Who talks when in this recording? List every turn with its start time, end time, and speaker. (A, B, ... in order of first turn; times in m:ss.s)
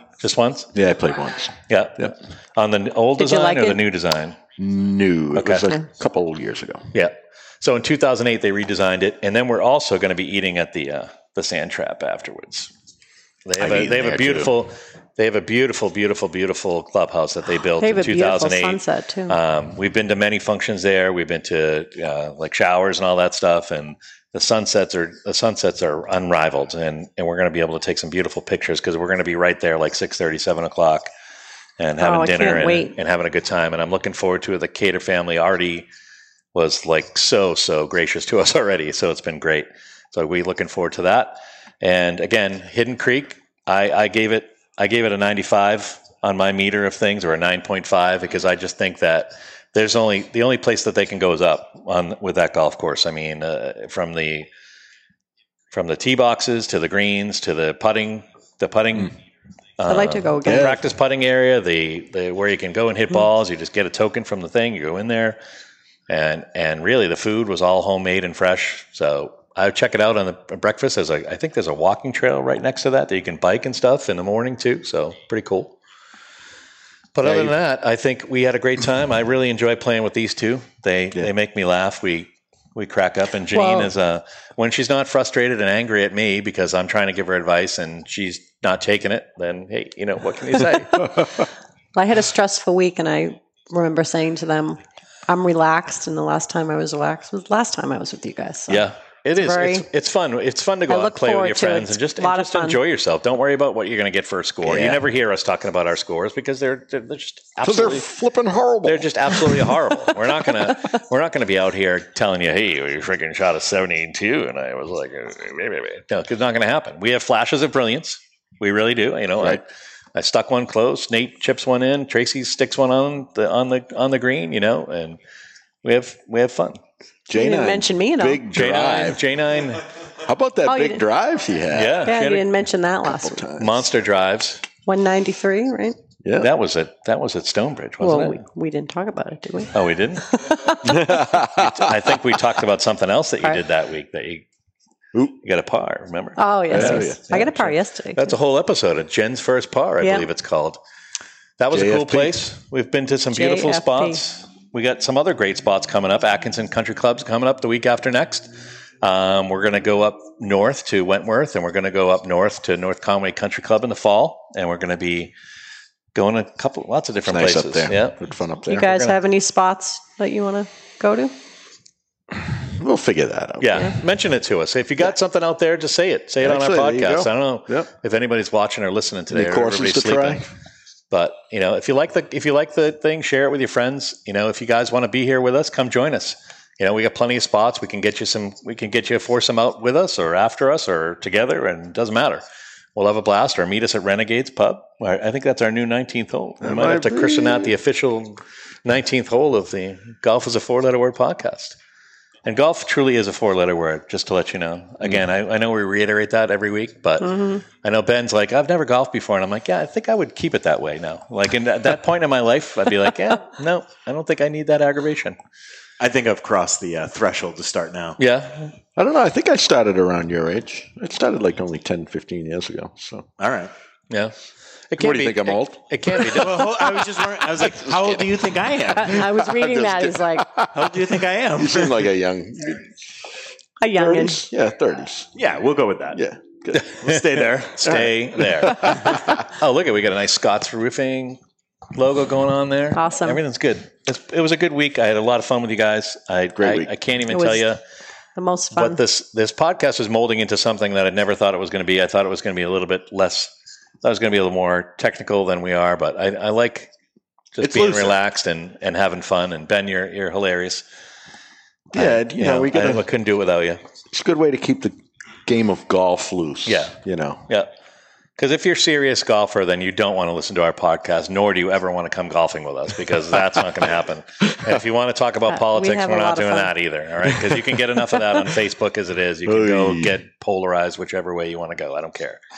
0:00.2-0:00.7 A
0:00.7-0:02.1 B
0:01.7-0:04.4 A
0:03.2-0:03.8 C
0:04.6-0:06.9 B
0:05.3-0:05.7 A
0:06.9-0:12.7 A
0:13.4-0:31.1 A
0:13.6-0:14.5 B
0:17.8-0:19.4 C
0:31.8-0:35.9 A
0:32.0-0:32.9 C
0:36.5-0:54.5 A
0:55.7-0:59.1 A
0:59.8-1:05.4 A
0:59.8-1:00.8 C
1:00.4-1:00.8 B
1:06.1-1:15.7 A
1:17.1-1:31.3 A
1:17.2-1:17.5 B
1:23.5-1:23.9 C
1:31.9-1:39.8 C
1:38.7-1:48.0 A
1:40.9-1:42.8 C
1:44.6-1:45.0 B
1:47.6-1:49.8 B
1:48.8-2:05.2 A
2:05.8-2:06.8 A
2:07.3-2:09.2 B
2:07.3-2:08.4 C
2:08.5-2:09.9 A
2:10.2-2:12.1 B
2:10.6-2:11.0 C
2:11.7-2:12.6 A
2:12.0-2:13.4 C
2:13.0-2:13.9 B
2:13.6-2:14.6 A
2:14.8-2:16.0 C
2:16.2-2:16.5 B
2:16.4-2:18.4 A
2:18.0-2:19.7 C
2:19.7-2:24.4 A
2:20.3-2:20.9 C
2:20.8-2:22.0 B
2:25.4-2:30.8 A
2:26.4-2:28.4 C
2:26.7-2:27.5 B
2:30.0-2:30.2 C
2:31.6-2:38.5 A
2:31.7-2:32.4 B
2:33.3-2:34.2 C
2:39.0-2:45.3 A
2:46.1-2:48.2 A
2:47.2-2:48.9 B
2:48.7-2:51.3 C
2:48.9-2:49.1 A
2:52.6-2:54.0 B
2:53.6-3:00.5 A
2:56.4-2:57.9 B
2:59.3-3:00.5 B
3:01.1-3:12.4 A
3:12.9-3:21.8 A
3:16.6-3:17.7 B
3:22.4-3:35.4 A
3:27.2-3:27.6 C
3:36.0-3:38.2 D
3:38.2-3:38.7 A
3:39.0-3:43.3 B
3:43.4-3:43.7 D
3:44.1-3:44.3 A
3:44.9-3:47.1 A
3:45.0-3:46.8 B
3:46.4-3:49.3 D
3:47.6-3:48.3 B
3:48.9-3:53.0 B
3:49.0-3:50.5 C
3:50.7-3:52.0 D
3:53.8-3:54.4 C
3:53.9-3:55.3 B
3:55.3-3:56.2 D
3:56.1-3:56.9 B
3:56.8-4:01.4 A
3:57.0-3:58.0 D
3:57.9-3:59.3 B
4:01.9-4:07.8 A
4:02.9-4:03.4 C
4:06.6-4:06.9 B
4:07.3-4:07.7 C
4:08.4-4:09.0 C
4:08.7-4:13.5 A
4:14.0-4:16.9 A
4:17.5-4:20.8 A
4:17.6-4:18.2 B
4:21.9-4:23.0 B
4:21.9-4:23.8 A
4:24.1-4:27.4 B
4:26.6-4:27.0 A
4:28.4-4:42.4 A
4:35.5-4:36.7 C
4:39.4-4:40.2 B